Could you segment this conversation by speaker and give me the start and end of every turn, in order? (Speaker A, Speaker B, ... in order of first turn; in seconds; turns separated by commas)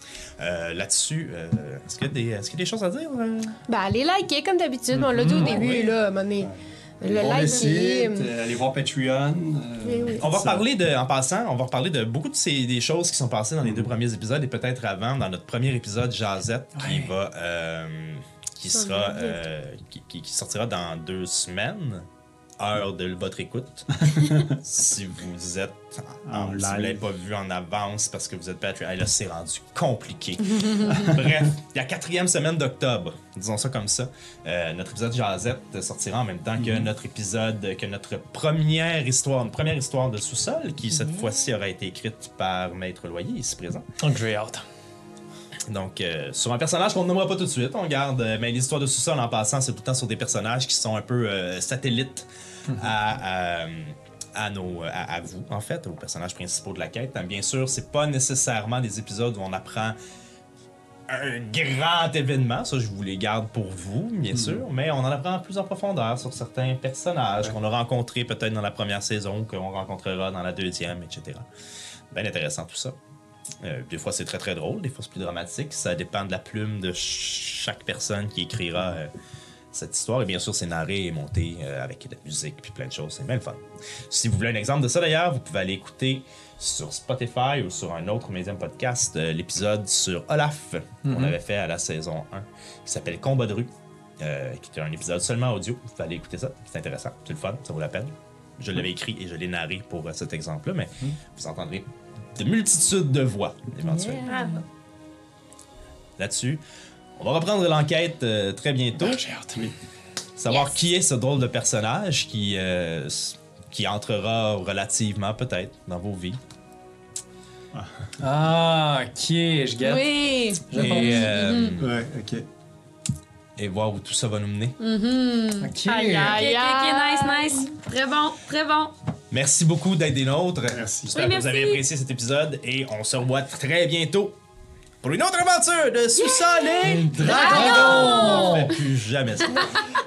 Speaker A: 0.4-3.6, Speaker B: 3.7-8.3, Speaker C: 4.9-5.6, Speaker A: 5.3-5.9, Speaker D: 6.4-10.7, Speaker B: 9.8-10.2, Speaker A: 10.2-22.1, Speaker D: 13.6-13.9, Speaker C: 16.7-17.1, Speaker B: 18.7-19.4, Speaker A: 22.6-43.9, Speaker D: 24.0-24.5, Speaker D: 26.2-27.0, Speaker E: 30.6-31.0, Speaker D: 36.6-36.9, Speaker E: 40.9-41.4, Speaker C: 44.0-44.6, Speaker A: 45.7-52.3, Speaker C: 52.7-53.0, Speaker A: 52.8-60.0, Speaker A: 61.1-71.5, Speaker D: 64.3-64.6, Speaker A: 72.1-73.0, Speaker A: 73.6-79.1, Speaker A: 79.7-104.3, Speaker C: 91.0-91.3, Speaker E: 104.0-104.6, Speaker B: 104.2-104.6, Speaker A: 106.2-106.6, Speaker A: 107.2-109.2, Speaker C: 109.0-109.7, Speaker A: 110.4-116.4, Speaker E: 110.5-110.8, Speaker D: 117.7-118.2, Speaker C: 118.2-121.3, Speaker E: 119.8-121.8, Speaker A: 120.7-121.9, Speaker D: 121.8-122.5, Speaker A: 123.6-124.8, Speaker E: 124.8-125.7, Speaker C: 125.6-126.4, Speaker B: 125.8-127.7, Speaker E: 126.2-128.9, Speaker A: 129.3-134.4, Speaker D: 130.7-131.1, Speaker E: 131.1-131.8, Speaker A: 135.0-139.8, Speaker C: 136.8-138.7, Speaker D: 137.1-137.8, Speaker E: 137.3-138.7, Speaker B: 137.8-138.7, Speaker B: 139.5-139.8, Speaker E: 139.6-139.9